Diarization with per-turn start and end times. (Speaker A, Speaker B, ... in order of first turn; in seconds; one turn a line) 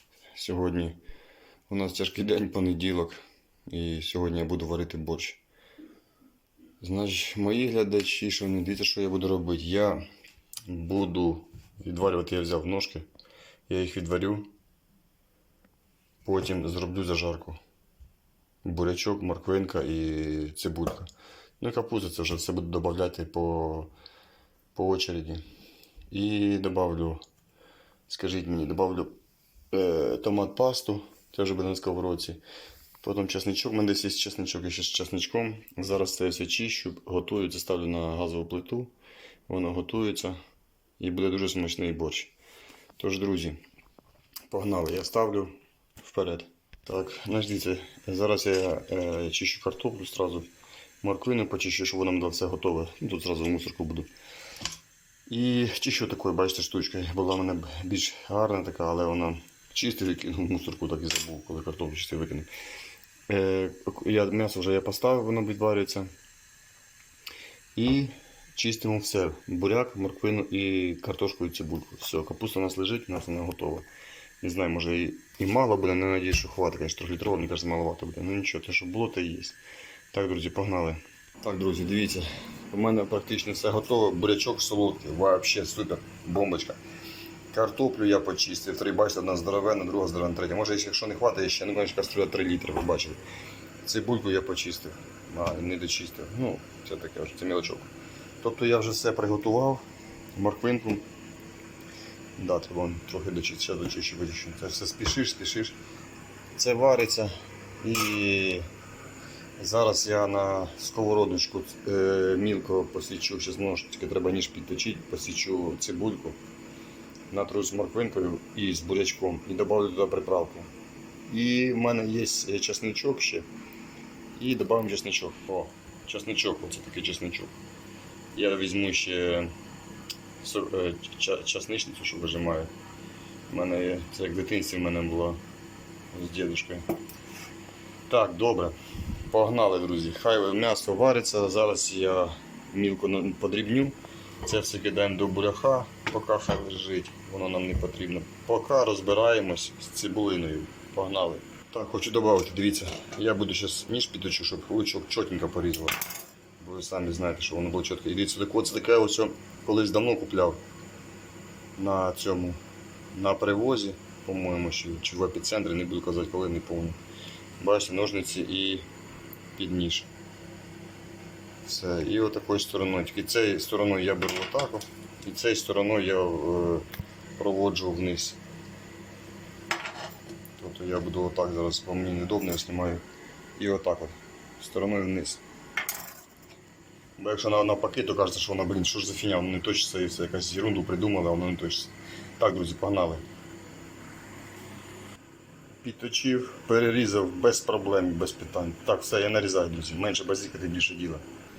Speaker A: 0.3-1.0
Speaker A: 1.7-5.4
Speaker A: 6.8-10.0
Speaker A: 10.7-13.1
Speaker A: 13.7-14.5
Speaker A: 16.2-17.6
Speaker A: 18.6-23.9
Speaker A: 24.7-25.4
Speaker A: 26.1-27.2
Speaker A: 28.1-29.1
Speaker A: 29.7-32.4
Speaker A: 33.0-38.9
Speaker A: 39.5-40.4
Speaker A: 41.0-42.3
Speaker A: 43.0-43.6
Speaker A: 44.5-50.5
Speaker A: 51.0-54.1
Speaker A: 55.3-62.5
Speaker A: 63.3-66.1
Speaker A: 67.8-73.9
Speaker A: 74.4-79.6
Speaker A: 80.1-86.8
Speaker A: 87.5-93.2
Speaker A: 93.8-97.9
Speaker A: 98.4-99.8
Speaker A: 100.3-101.1
Speaker A: 102.4-105.8
Speaker A: 106.5-108.7
Speaker A: 109.6-116.4
Speaker A: 117.3-120.7
Speaker A: 121.3-123.5
Speaker A: 124.4-127.5
Speaker A: 128.3-129.5
Speaker A: 130.4-132.7
Speaker A: 133.5-135.4
Speaker A: 136.1-136.8
Speaker A: 138.1-138.8
Speaker A: 139.3-156.0
Speaker A: 156.6-160.6
Speaker A: 161.8-162.6
Speaker A: 163.1-167.0
Speaker A: 167.6-168.9
Speaker A: 169.6-170.1
Speaker A: 171.6-176.9
Speaker A: 177.4-178.4
Speaker A: 180.6-183.0
Speaker A: 183.6-185.4
Speaker A: 187.2-193.2
Speaker A: 195.8-201.2